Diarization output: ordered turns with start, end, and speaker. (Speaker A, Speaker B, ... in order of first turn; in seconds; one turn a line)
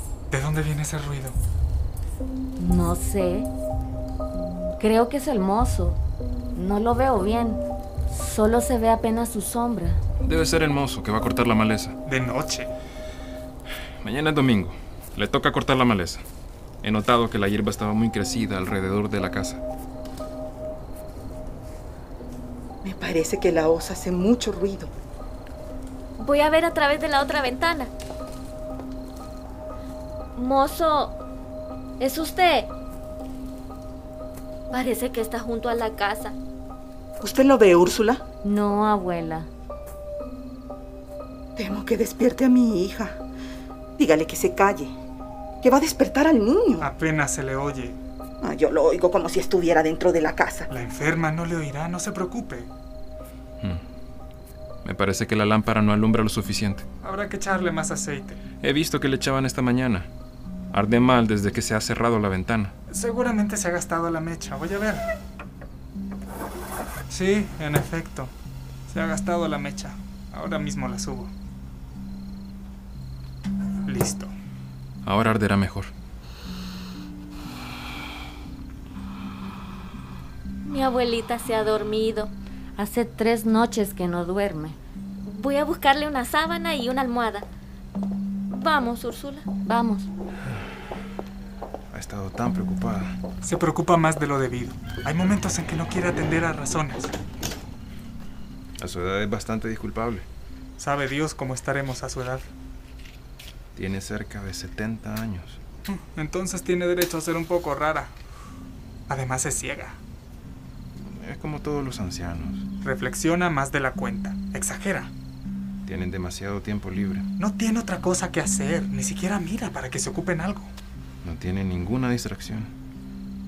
Speaker A: 0.3-1.4
Speaker B: 2.6-3.5
Speaker B: 4.8-6.0
Speaker B: 6.5-10.0
Speaker C: 10.2-12.0
Speaker A: 12.1-12.7
Speaker C: 14.0-16.2
Speaker C: 16.8-19.6
Speaker D: 22.8-24.9
Speaker E: 26.2-27.9
Speaker E: 30.4-31.2
Speaker E: 32.0-32.7
Speaker E: 34.7-36.4
Speaker D: 37.2-38.2
Speaker B: 38.4-39.5
Speaker D: 41.6-43.2
Speaker D: 44.0-44.9
Speaker D: 45.6-46.9
Speaker A: 46.8-48.0
Speaker D: 48.4-50.7
Speaker A: 50.7-52.7
Speaker C: 54.9-56.9
Speaker A: 57.0-58.4
Speaker C: 58.6-60.1
Speaker C: 60.7-62.7
Speaker A: 62.9-65.1
Speaker A: 67.1-68.3
Speaker A: 68.9-71.3
Speaker A: 73.9-74.3
Speaker C: 75.0-75.9
Speaker E: 80.7-82.3
Speaker B: 82.8-84.8
Speaker E: 85.3-87.5
Speaker E: 88.5-89.5
Speaker B: 89.7-90.1
Speaker C: 91.9-93.2
Speaker A: 93.4-97.1
Speaker C: 98.8-100.3
Speaker A: 100.8-102.5
Speaker C: 103.8-105.6
Speaker A: 105.9-108.1
Speaker A: 109.1-110.0
Speaker C: 111.0-112.7
Speaker A: 112.8-115.1
Speaker C: 115.9-117.3
Speaker A: 117.4-120.7
Speaker C: 121.2-122.7